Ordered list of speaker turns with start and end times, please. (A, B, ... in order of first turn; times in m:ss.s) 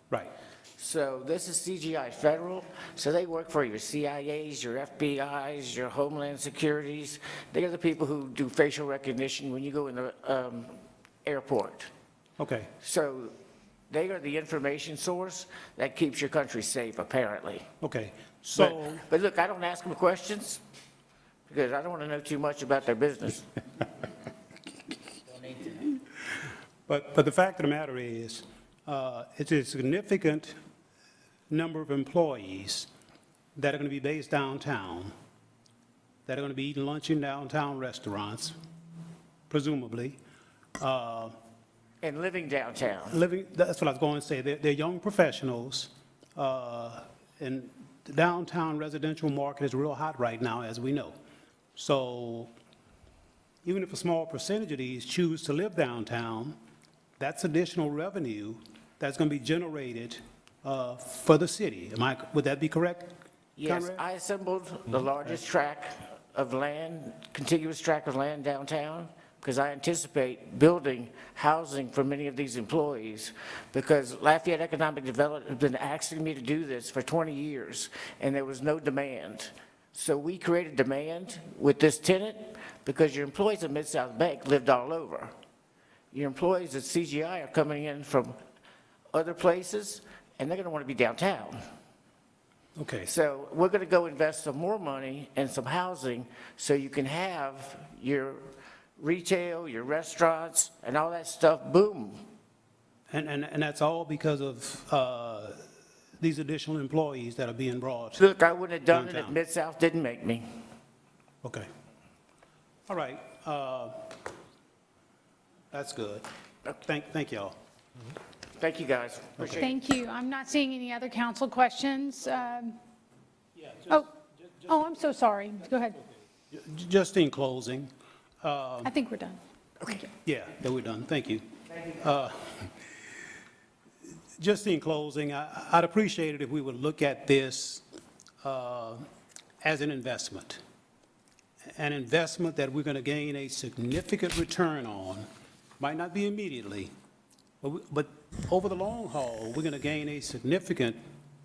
0:00.8-0:11.9 A
0:12.4-0:12.7 B
0:12.8-0:13.3 A
0:13.9-0:17.6 A
0:17.8-0:19.0 B
0:18.6-0:20.6 A
0:21.5-0:23.5 A
0:26.9-0:30.6 B
0:31.5-0:32.9 B
0:33.6-0:35.1 B
0:36.2-0:38.6 B
0:39.5-0:40.2 B
0:40.8-0:41.3 B
0:42.0-0:43.2 A
0:43.1-0:51.2 B
0:51.8-0:52.5 B
0:53.6-0:56.6 B
0:57.2-1:04.0 B
1:03.6-1:25.3 A
1:26.1-1:28.4 A
1:29.1-1:31.6 A
1:32.8-1:33.1 B
1:33.0-1:38.4 A
1:39.0-1:42.2 A
1:43.1-1:45.6 B
1:46.2-1:48.2 B
1:48.2-1:50.4 A
1:48.9-1:49.4 B
1:52.9-1:54.1 B
1:55.7-1:56.2 B
1:56.8-1:57.6 B
1:58.6-1:59.7 A
1:59.6-2:02.8 C
2:03.9-2:04.1 C
2:04.6-2:06.0 C
2:06.5-2:08.9 B
2:08.8-2:10.0 C
2:10.2-2:12.7 B
2:14.4-2:17.8 B
2:18.4-2:19.0 B
2:19.6-2:20.6 B
2:21.7-2:25.3 B
2:25.8-2:26.9 B
2:27.6-2:31.0 B